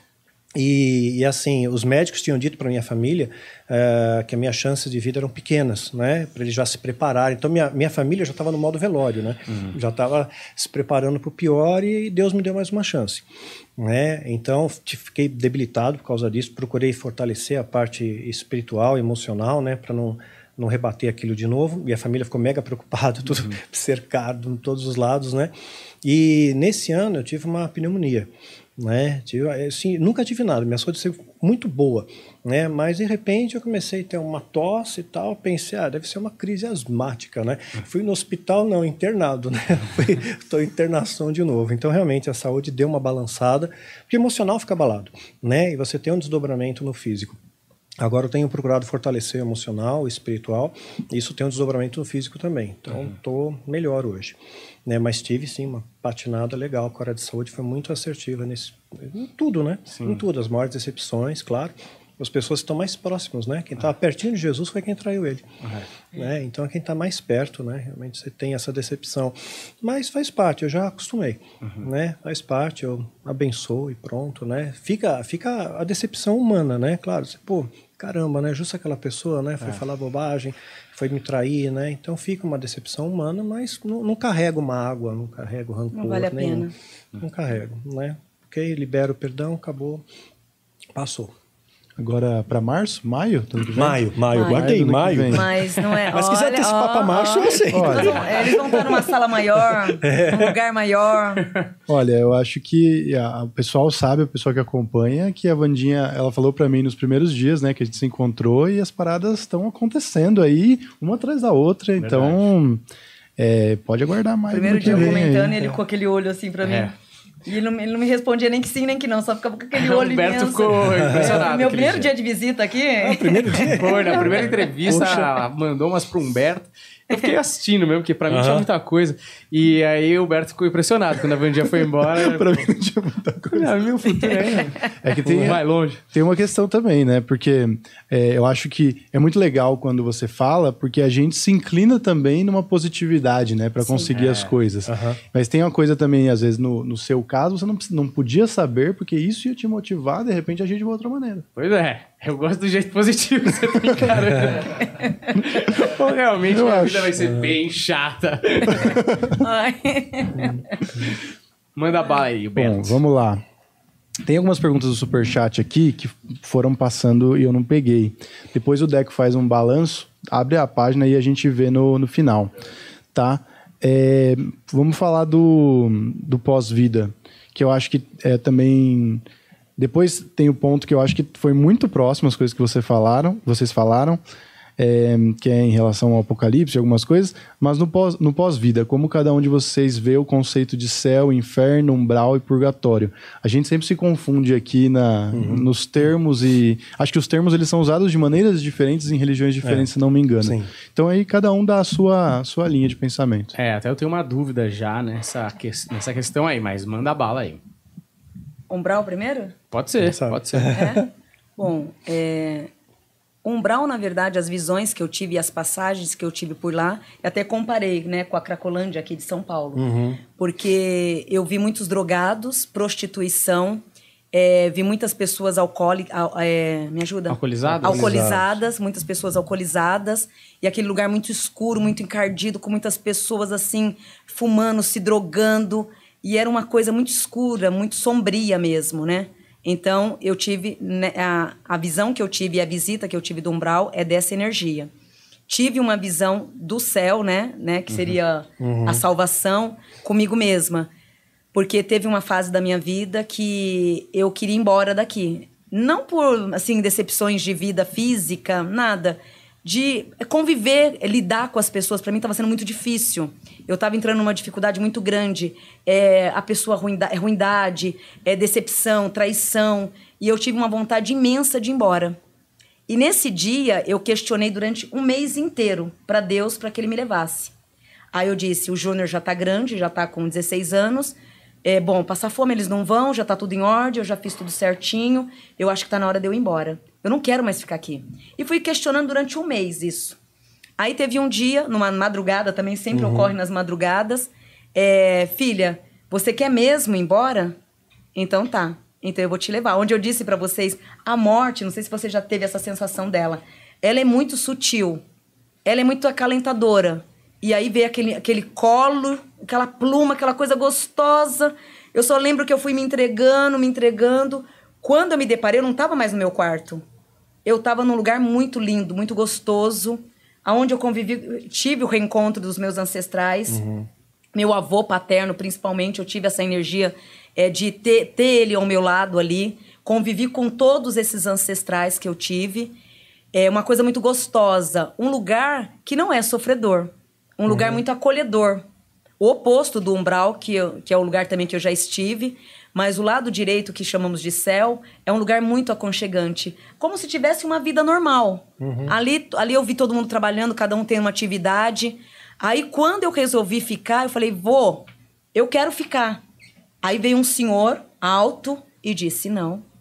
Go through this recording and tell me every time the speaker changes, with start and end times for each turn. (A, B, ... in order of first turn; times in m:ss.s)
0:00.6-0:13.2 A
0:09.5-0:09.8 B
0:13.8-0:47.4 A
0:48.0-1:05.5 A
0:59.9-1:00.2 B
1:05.6-1:05.9 B
1:06.1-1:26.7 A
1:25.9-1:26.7 C
1:27.2-1:30.0 A
1:31.0-1:31.3 A
1:32.0-1:35.5 D
1:33.8-1:39.1 A
1:34.3-1:34.7 C
1:35.3-1:41.4 C
1:37.7-1:38.2 D
1:40.0-1:40.6 A
1:41.9-1:52.8 D
1:52.0-1:52.4 B
1:53.4-1:55.6 D
1:54.5-1:56.9 C
1:54.7-1:55.8 A
1:56.6-1:56.9 B
1:57.5-2:04.5 C
1:59.8-2:02.1 B
2:00.9-2:01.4 A
2:03.0-2:05.4 A
2:03.7-2:12.6 B
2:08.3-2:08.7 A
2:12.0-2:13.7 D
2:13.5-2:16.0 B
2:14.2-2:14.9 C
2:15.0-2:31.5 D
2:23.8-2:24.1 C
2:24.1-2:24.5 B
2:24.8-2:25.2 A
2:31.6-2:34.8 B
2:34.8-2:35.1 C
2:35.4-2:39.0 B
2:36.5-2:37.2 D
2:38.8-2:39.4 D
2:39.4-2:40.6 C
2:41.8-2:43.0 B
2:42.6-2:43.4 D
2:44.2-2:52.5 D
2:53.1-2:59.2 D
2:59.8-3:04.2 D
3:04.8-3:23.5 D
3:15.3-3:15.6 A
3:20.4-3:20.7 A
3:23.5-3:27.6 B
3:28.7-3:29.6 C
3:29.7-3:30.8 B
3:30.0-3:31.0 A
3:30.7-3:32.7 C
3:33.4-3:39.8 C
3:39.8-3:40.2 A
3:40.4-3:43.8 C
3:44.3-4:04.9 C
3:47.3-3:48.1 B
3:47.7-3:48.6 A
4:05.5-4:10.9 C
4:08.6-4:09.0 A
4:11.5-4:32.2 C
4:32.9-4:37.5 C
4:38.1-4:50.2 C
4:50.8-4:57.6 C
4:52.9-4:53.3 A
4:58.2-5:05.0 C
5:05.7-5:16.8 C
5:17.4-5:23.6 C
5:23.5-5:23.9 A
5:24.3-5:32.8 C
5:33.3-5:38.6 C
5:37.5-5:37.8 A
5:39.2-5:56.2 C
5:48.6-5:48.9 A
5:56.8-5:59.6 C